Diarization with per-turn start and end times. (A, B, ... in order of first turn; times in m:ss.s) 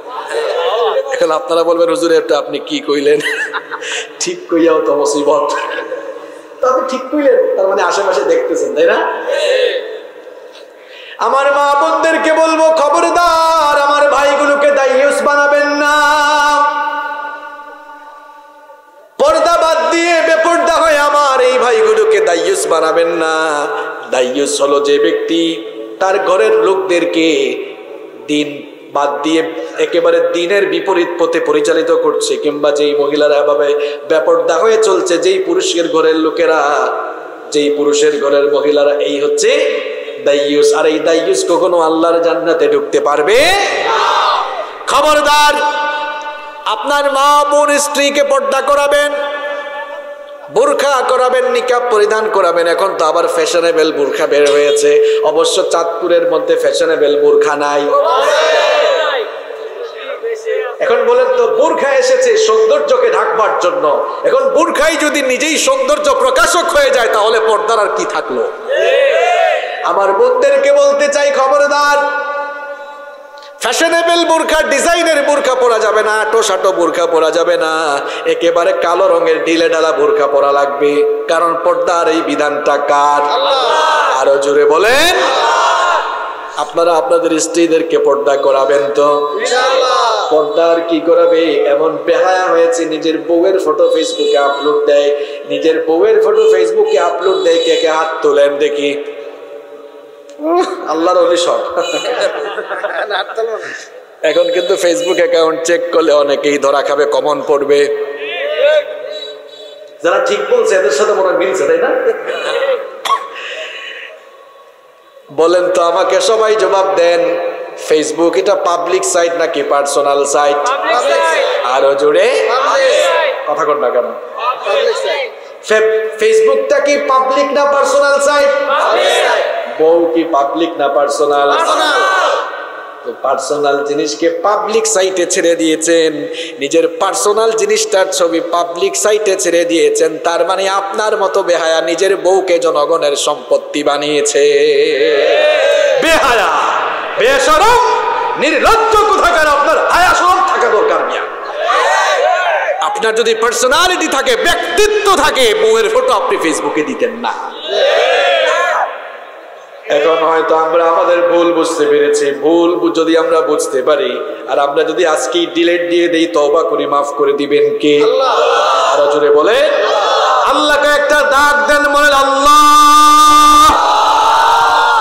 0:00.9-0:05.8 A
0:06.6-0:09.0 A
0:11.2-0:16.8 A
0:19.2-0:27.7 A
0:28.3-0:43.9 A
0:44.9-0:45.6 A
0:46.7-0:49.2 A
0:50.5-0:58.0 A
1:00.8-1:08.5 A
1:09.9-1:12.0 A
1:13.6-1:25.4 A
1:26.6-1:39.0 A
1:40.4-1:42.4 A
1:44.2-1:47.9 A
1:50.0-1:52.4 A
1:55.3-2:04.2 A
2:05.6-2:12.1 A
2:13.0-2:31.3 A
2:32.8-2:37.4 A
2:39.9-2:53.9 A